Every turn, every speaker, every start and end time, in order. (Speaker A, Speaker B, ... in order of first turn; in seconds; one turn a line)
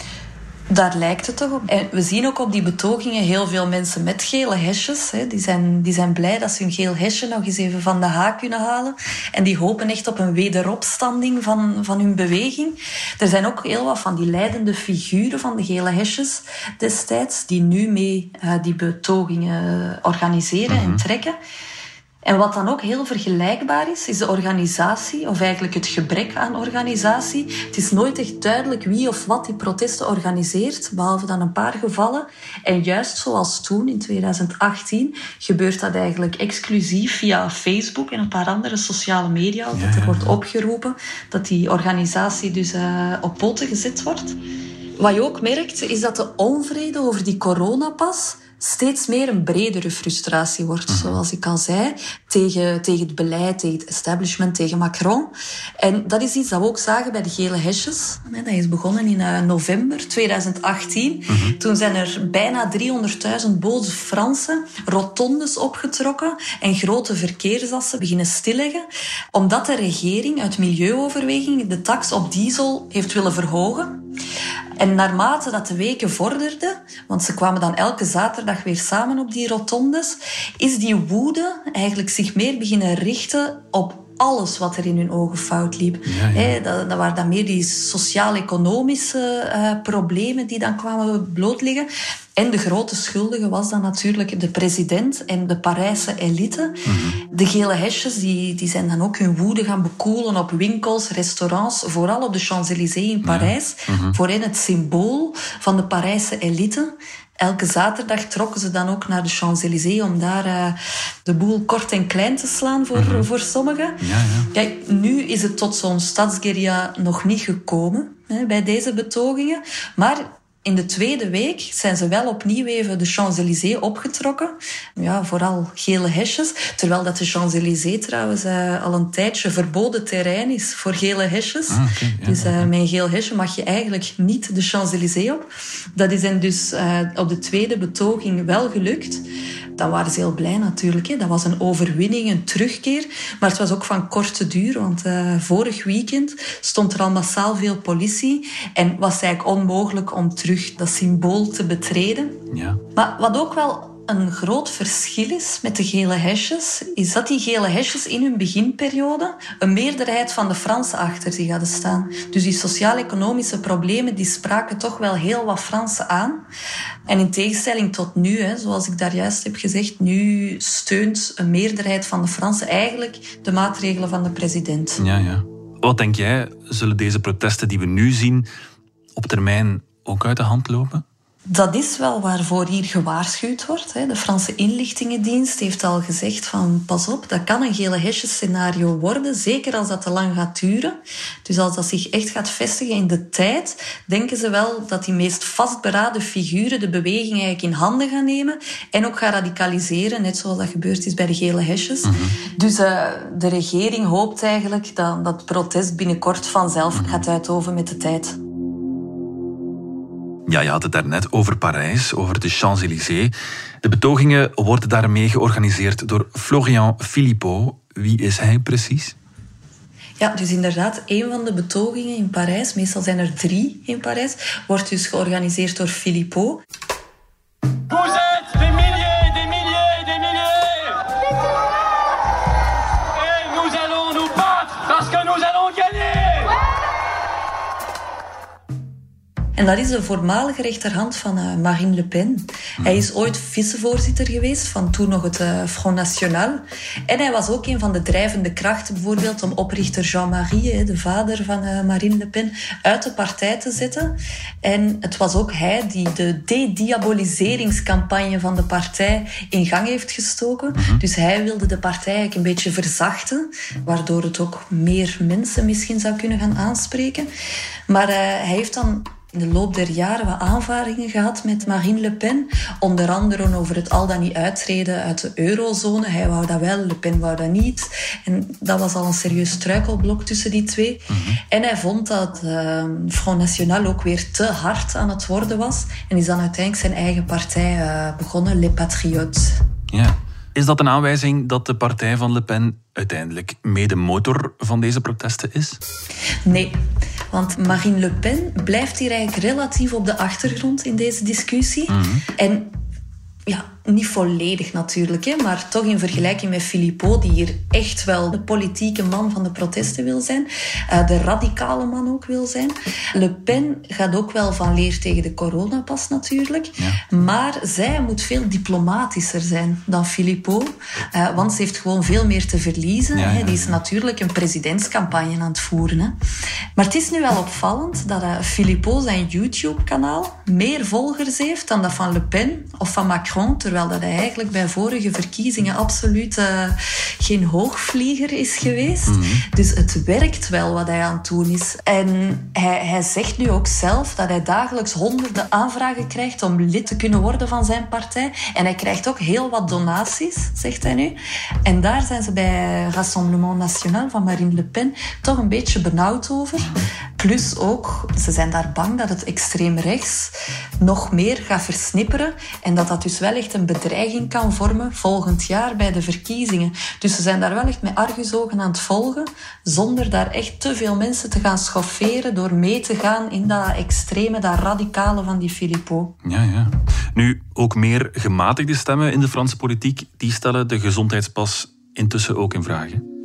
Speaker A: 0.7-21.3
Speaker B: 20.7-21.0
Speaker A: 22.2-44.4
Speaker B: 39.7-40.3
Speaker A: 45.0-74.0
Speaker B: 50.9-51.2
Speaker B: 61.3-61.5
Speaker A: 74.8-96.8
Speaker B: 86.0-86.5
Speaker B: 96.8-97.2
Speaker A: 97.3-114.0
Speaker B: 103.2-104.2
Speaker B: 112.9-113.3
Speaker B: 114.0-114.5
Speaker A: 114.5-139.2
Speaker B: 131.7-132.7
Speaker A: 139.8-152.4
Speaker B: 152.5-152.8
Speaker A: 152.9-166.4
Speaker A: 167.1-175.0
Speaker B: 175.0-178.5
Speaker B: 179.2-181.0
Speaker A: 181.5-208.4
Speaker B: 202.0-202.4
Speaker B: 206.9-207.2
Speaker B: 210.5-219.1
Speaker A: 220.2-226.6
Speaker B: 229.4-229.8
Speaker B: 234.9-235.8
Speaker A: 239.5-267.3
Speaker B: 260.7-261.0
Speaker A: 267.9-289.6
Speaker B: 281.1-281.4
Speaker B: 289.9-295.8
Speaker A: 296.4-296.8
Speaker A: 297.3-302.7
Speaker B: 301.9-302.2
Speaker A: 303.5-326.1
Speaker B: 316.8-317.0
Speaker B: 323.1-323.8
Speaker A: 326.8-376.1
Speaker B: 339.1-339.4
Speaker B: 376.2-383.0